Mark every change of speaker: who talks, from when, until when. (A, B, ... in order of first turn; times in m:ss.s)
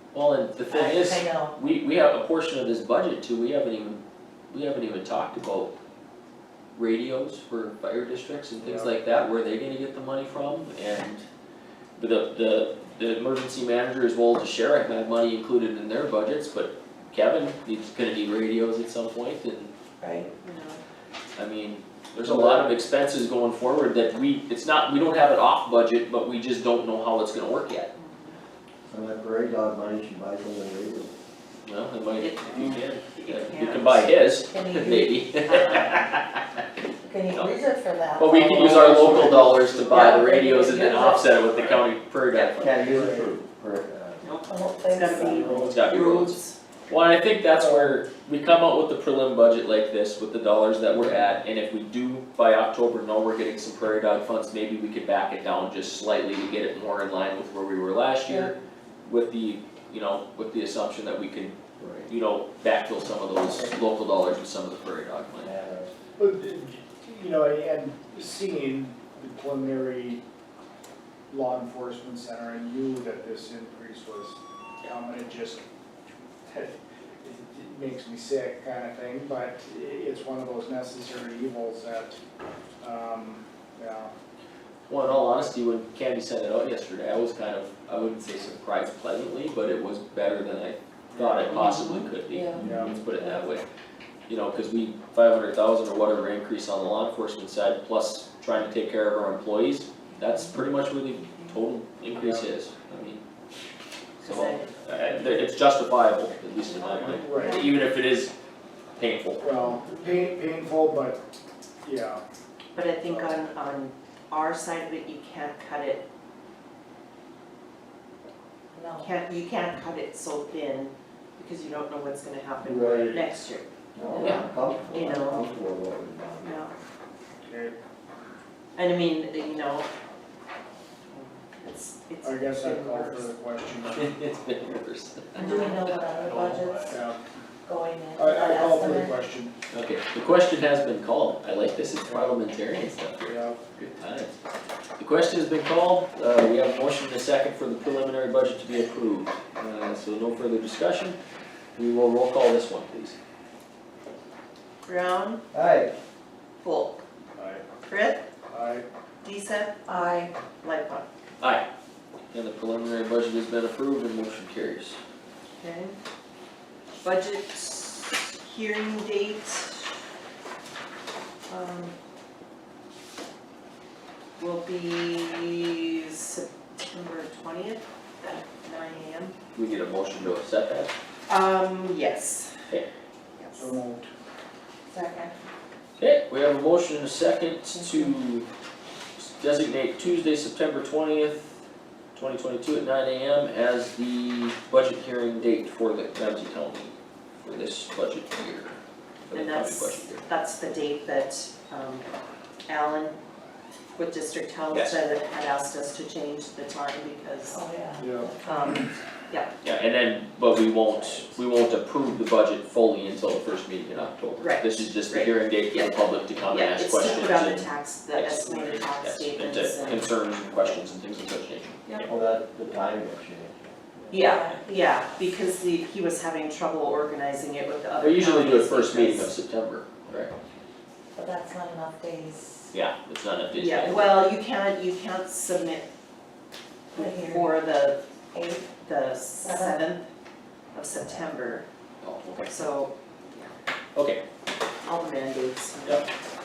0:00.1-0:05.7 A
0:00.7-0:01.5 B
0:06.7-0:11.2 A
0:08.6-0:09.0 C
0:12.0-0:19.7 A
0:20.0-0:20.3 B
0:20.4-0:20.8 D
0:21.3-0:27.9 A
0:22.2-0:22.7 E
0:27.9-0:28.4 D
0:28.9-0:31.1 E
0:31.6-0:36.6 A
0:32.2-0:34.1 D
0:34.5-0:35.2 B
0:35.4-0:36.1 D
0:37.0-0:41.3 B
0:37.3-0:37.6 A
0:38.2-0:42.8 A
0:38.9-0:39.4 E
0:39.9-0:40.2 D
0:42.3-0:42.7 D
0:42.6-0:44.2 E
0:42.8-0:43.3 C
0:44.2-0:46.6 D
0:44.4-0:45.6 B
0:45.3-0:45.7 E
0:45.6-1:01.5 A
0:47.5-0:48.0 C
1:01.8-1:02.1 E
1:02.0-1:05.5 A
1:05.4-1:05.9 E
1:06.2-1:10.2 C
1:11.3-1:15.6 C
1:16.4-1:22.2 C
1:22.8-1:24.1 C
1:24.9-1:33.6 A
1:25.0-1:25.5 C
1:31.1-1:31.7 C
1:31.6-1:33.4 B
1:32.6-1:33.0 C
1:34.3-1:43.2 A
1:42.1-1:42.5 C
1:44.2-1:48.3 A
1:44.2-1:45.3 D
1:46.8-1:47.7 D
1:46.9-1:47.7 C
1:49.0-1:49.4 A
1:49.4-1:51.2 C
1:51.8-1:52.2 C
1:52.7-1:56.0 D
1:53.0-1:53.4 C
1:58.7-1:59.1 B
1:59.0-2:05.5 D
2:02.6-2:03.2 E
2:02.9-2:03.3 C
2:03.9-2:06.6 E
2:04.2-2:04.4 A
2:06.4-2:06.7 D
2:07.4-2:07.8 C
2:08.7-2:09.9 D
2:11.6-2:13.3 D
2:12.2-2:14.2 C
2:13.9-2:16.8 A
2:15.4-2:17.0 B
2:15.4-2:15.7 D
2:16.8-2:17.2 C
2:17.6-2:19.1 B
2:18.2-2:19.5 C
2:19.7-2:24.3 A
2:22.0-2:22.4 C
2:23.2-2:23.7 C
2:25.0-2:31.2 A
2:31.8-2:33.2 A
2:34.8-2:35.4 D
2:35.5-2:35.9 E
2:36.6-2:37.0 D
2:37.3-2:37.6 C
2:37.9-2:38.2 D
2:38.5-2:38.8 C
2:39.2-2:39.9 D
2:39.8-2:40.3 B
2:40.6-2:41.0 D
2:41.4-2:41.6 A
2:42.3-2:45.0 A
2:45.6-2:45.9 D
2:47.0-2:49.8 D
2:51.5-2:51.9 D
2:54.4-2:59.4 D
2:59.5-3:00.9 A
3:01.3-3:02.6 D
3:03.4-3:03.7 D
3:03.5-3:04.1 C
3:04.9-3:05.3 B
3:06.0-3:08.5 A
3:07.8-3:08.1 B
3:09.2-3:11.6 A
3:12.1-3:20.2 A
3:19.3-3:22.0 D
3:22.7-3:23.2 D
3:23.9-3:27.6 D
3:27.5-3:29.0 B
3:28.0-3:28.3 C
3:28.4-3:29.5 D
3:29.6-3:41.9 A
3:34.4-3:40.1 D
3:42.0-3:44.1 E
3:44.1-3:49.3 D
3:44.2-3:44.8 B
3:48.0-3:50.3 A
3:51.1-3:52.7 B
3:52.7-3:54.2 A
3:53.5-3:55.9 D
3:56.9-3:57.6 B
3:56.9-3:58.0 D
3:58.3-3:58.7 B
3:58.6-4:00.0 D
3:59.4-3:59.8 B
4:00.7-4:01.6 D
4:02.0-4:02.6 A
4:02.4-4:03.5 D
4:03.9-4:04.2 A
4:04.8-4:06.0 D